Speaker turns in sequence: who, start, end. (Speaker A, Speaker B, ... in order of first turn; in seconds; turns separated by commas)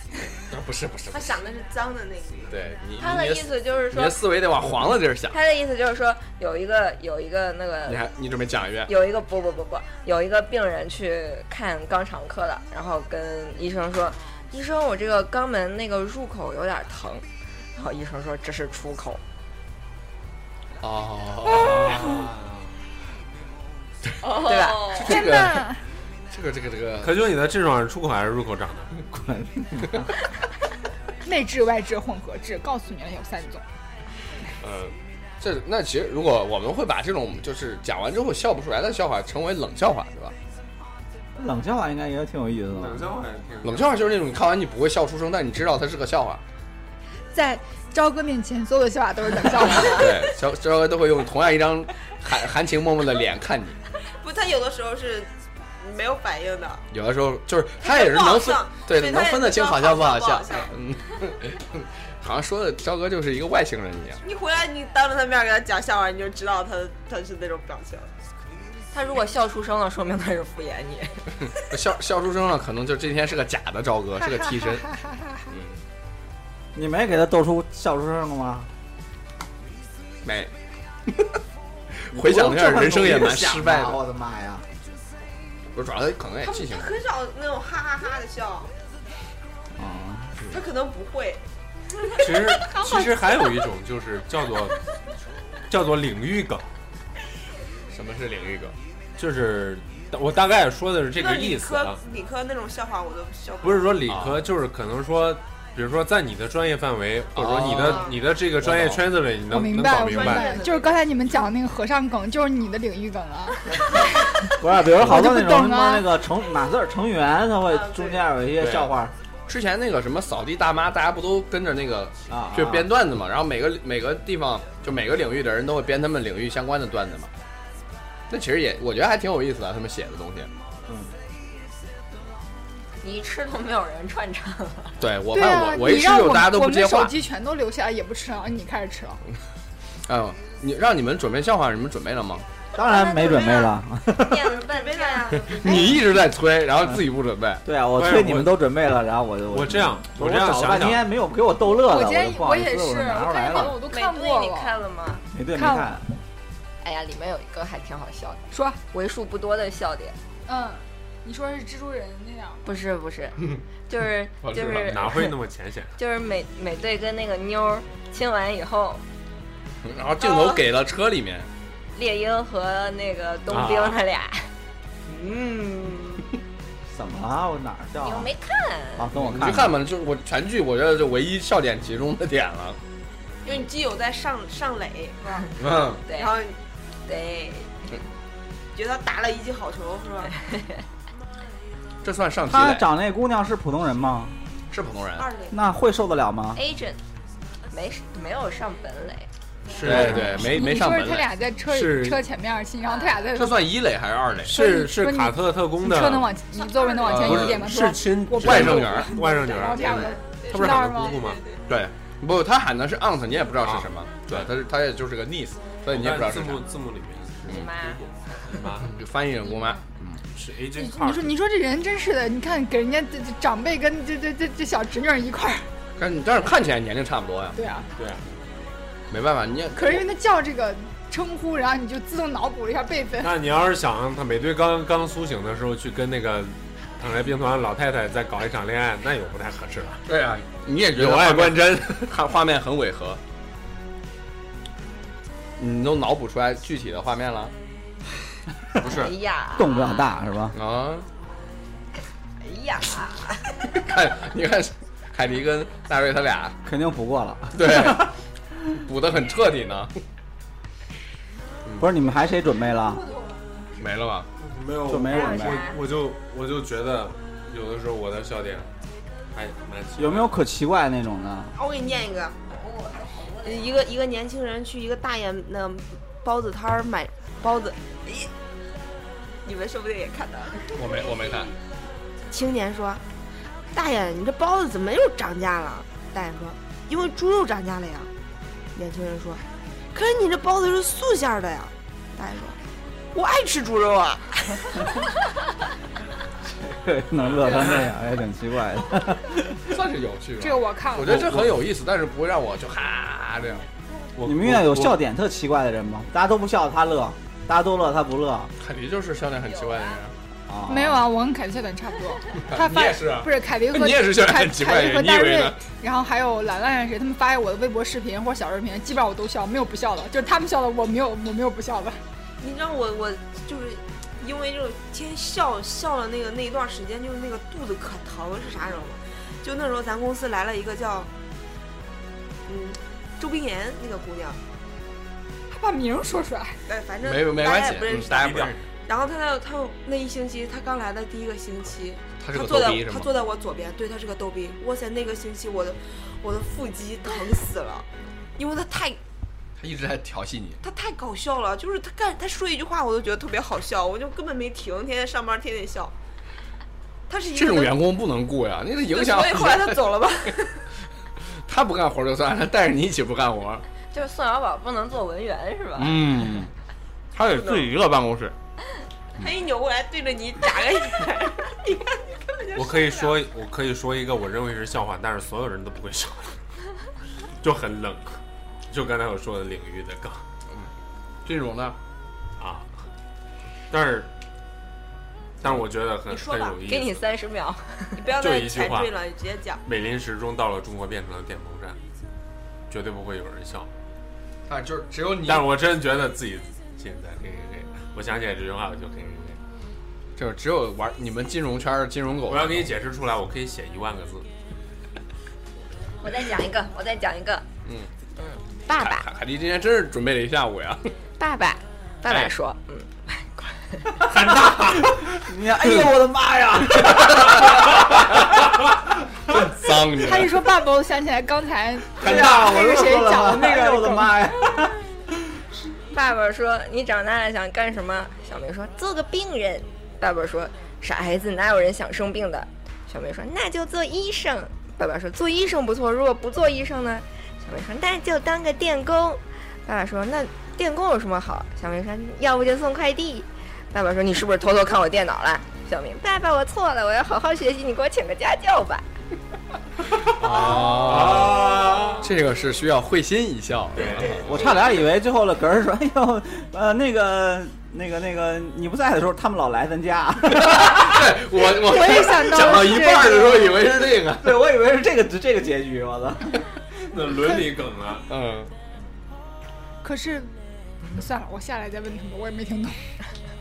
Speaker A: 0.5-1.3, Speaker B: 1.1-2.6, Speaker A: 2.5-5.4, Speaker C: 3.0-4.3, Speaker C: 5.3-8.1, Speaker A: 7.9-8.9, Speaker C: 8.9-17.2, Speaker C: 17.8-19.2, Speaker A: 20.8-22.3, Speaker D: 21.5-22.7, Speaker C: 24.2-25.2, Speaker B: 24.3-25.1, Speaker A: 24.5-25.7, Speaker E: 25.0-25.8, Speaker A: 26.3-27.2, Speaker D: 27.0-29.0, Speaker F: 29.1-30.1, Speaker E: 31.2-33.6, Speaker D: 34.6-34.9, Speaker A: 35.4-40.4, Speaker F: 41.4-43.1, Speaker D: 42.8-44.0, Speaker A: 43.6-46.4, Speaker E: 47.3-50.1, Speaker A: 49.9-53.8, Speaker B: 54.1-55.3, Speaker B: 55.8-56.9, Speaker A: 56.9-64.2, Speaker B: 57.8-60.7, Speaker B: 64.2-68.1, Speaker C: 68.9-71.4, Speaker A: 71.6-74.9, Speaker A: 75.5-75.8, Speaker F: 76.8-78.7, Speaker A: 80.2-80.5, Speaker A: 82.0-84.0, Speaker F: 82.1-84.7, Speaker A: 85.7-87.0, Speaker B: 86.4-88.7, Speaker F: 89.8-90.4, Speaker B: 90.5-91.5, Speaker B: 92.0-93.1, Speaker D: 92.2-94.8, Speaker D: 95.7-96.7, Speaker A: 97.9-98.8, Speaker D: 99.2-102.0, Speaker B: 101.1-104.0, Speaker D: 103.6-110.6, Speaker A: 104.1-104.4, Speaker A: 107.4-108.2, Speaker B: 107.8-108.2, Speaker E: 109.5-114.3, Speaker B: 110.0-111.0, Speaker F: 114.6-119.1, Speaker E: 114.9-116.1, Speaker B: 117.7-118.3, Speaker D: 118.6-118.9, Speaker A: 119.5-127.3, Speaker F: 122.3-122.9, Speaker A: 128.3-130.5, Speaker C: 133.0-135.0, Speaker A: 135.0-137.2, Speaker E: 135.3-139.2, Speaker A: 140.1-142.5, Speaker F: 142.8-144.6, Speaker C: 142.8-145.5, Speaker B: 144.7-146.0, Speaker A: 145.5-147.6, Speaker E: 145.7-146.0, Speaker F: 147.7-153.8, Speaker D: 147.9-148.6, Speaker D: 149.5-151.0, Speaker E: 151.7-154.8, Speaker C: 153.6-155.3, Speaker F: 155.3-156.0, Speaker E: 155.5-156.0, Speaker C: 156.8-160.2, Speaker E: 158.5-158.8, Speaker E: 160.5-162.8, Speaker C: 162.7-165.3, Speaker A: 164.4-165.1, Speaker D: 164.8-166.0, Speaker C: 166.0-169.0, Speaker A: 169.8-171.5, Speaker C: 172.0-174.5, Speaker D: 173.5-174.0, Speaker B: 175.1-176.3, Speaker F: 176.9-178.3, Speaker C: 178.0-179.1, Speaker F: 179.0-179.8, Speaker A: 179.2-182.8, Speaker B: 183.4-185.6, Speaker A: 185.6-186.0, Speaker C: 186.0-186.4, Speaker B: 186.1-186.6, Speaker C: 187.1-187.8, Speaker B: 188.8-190.3, Speaker C: 190.5-190.8, Speaker A: 192.0-192.9, Speaker F: 192.5-194.4, Speaker A: 194.7-195.3, Speaker B: 195.2-195.6, Speaker F: 195.5-196.6, Speaker C: 196.6-197.0, Speaker C: 197.7-199.3, Speaker D: 199.7-200.4, Speaker A: 199.7-201.3, Speaker E: 199.9-203.7, Speaker D: 201.7-202.2, Speaker C: 203.0-203.2, Speaker A: 203.3-204.6, Speaker E: 204.5-211.2, Speaker D: 204.5-206.3, Speaker A: 207.1-207.7, Speaker D: 207.1-211.4, Speaker A: 208.4-209.2, Speaker B: 209.8-210.1, Speaker A: 209.8-210.1, Speaker B: 210.6-211.4, Speaker A: 211.7-216.7, Speaker D: 213.6-214.5, Speaker D: 215.9-218.9, Speaker C: 217.4-218.0, Speaker A: 218.7-220.2, Speaker D: 220.3-221.3, Speaker E: 220.8-225.7, Speaker A: 226.0-227.6, Speaker E: 227.6-227.9, Speaker D: 228.0-228.2, Speaker A: 229.1-230.0, Speaker E: 229.7-233.3, Speaker D: 233.2-240.0, Speaker A: 240.1-243.2, Speaker D: 240.9-242.1, Speaker A: 245.6-247.5, Speaker D: 248.8-249.1, Speaker C: 248.8-250.1, Speaker F: 249.6-250.6, Speaker A: 250.5-251.1, Speaker C: 252.4-253.7, Speaker A: 253.7-256.6, Speaker F: 256.6-258.1, Speaker A: 257.5-258.1, Speaker A: 258.7-259.9, Speaker A: 261.6-261.9, Speaker F: 261.8-263.0, Speaker E: 263.1-263.4, Speaker A: 263.8-264.3, Speaker D: 264.4-268.7, Speaker F: 264.9-265.7, Speaker C: 265.1-265.8, Speaker D: 269.3-270.4, Speaker F: 270.0-271.5, Speaker B: 271.6-272.4, Speaker C: 272.5-273.7, Speaker B: 273.4-278.3, Speaker B: 279.4-280.8, Speaker A: 280.7-281.5, Speaker B: 282.3-283.0, Speaker B: 283.7-288.1, Speaker B: 288.8-292.6, Speaker B: 293.1-294.9, Speaker F: 296.5-299.7, Speaker A: 299.7-303.7, Speaker E: 300.4-301.3, Speaker D: 304.2-305.0, Speaker F: 304.2-308.5, Speaker A: 308.6-310.1, Speaker C: 309.4-310.0, Speaker F: 310.5-311.0, Speaker E: 310.7-322.0, Speaker A: 312.5-315.6, Speaker B: 322.4-331.1, Speaker B: 332.5-334.4, Speaker E: 335.5-336.6, Speaker B: 336.7-347.9, Speaker A: 337.0-338.6, Speaker D: 338.1-338.6, Speaker A: 342.2-343.1, Speaker B: 348.4-349.0, Speaker A: 349.6-350.6, Speaker B: 350.6-355.9, Speaker B: 357.1-357.8, Speaker A: 357.3-359.9, Speaker B: 358.8-360.6, Speaker A: 361.5-363.6, Speaker C: 363.9-366.1, Speaker A: 365.8-366.5, Speaker A: 367.1-368.3, Speaker B: 367.4-367.7, Speaker B: 369.2-373.2, Speaker D: 372.6-376.4, Speaker D: 377.4-380.2, Speaker A: 381.2-381.8, Speaker D: 382.4-382.8, Speaker D: 383.7-384.1, Speaker D: 385.4-387.0, Speaker B: 386.1-386.6, Speaker C: 386.7-388.1, Speaker B: 388.0-389.6, Speaker D: 388.2-388.9, Speaker D: 389.6-391.8, Speaker D: 392.7-393.7, Speaker A: 394.5-395.5, Speaker D: 395.3-399.4, Speaker A: 400.2-402.7, Speaker D: 402.3-404.3, Speaker C: 406.0-407.5, Speaker A: 407.6-407.9, Speaker C: 408.2-409.1, Speaker A: 408.8-410.9, Speaker C: 411.2-414.0, Speaker F: 414.1-417.8, Speaker D: 414.2-414.9, Speaker A: 416.9-418.4, Speaker A: 419.3-420.4, Speaker E: 419.9-424.2, Speaker F: 422.0-424.8, Speaker A: 422.0-422.3, Speaker C: 425.9-448.9, Speaker A: 450.0-454.4, Speaker D: 450.2-452.1, Speaker D: 453.8-454.7, Speaker F: 454.2-461.1, Speaker A: 460.3-464.3, Speaker E: 461.6-463.5, Speaker F: 464.1-466.4, Speaker D: 466.9-468.1, Speaker A: 468.1-468.5, Speaker E: 469.8-470.3, Speaker E: 470.9-472.9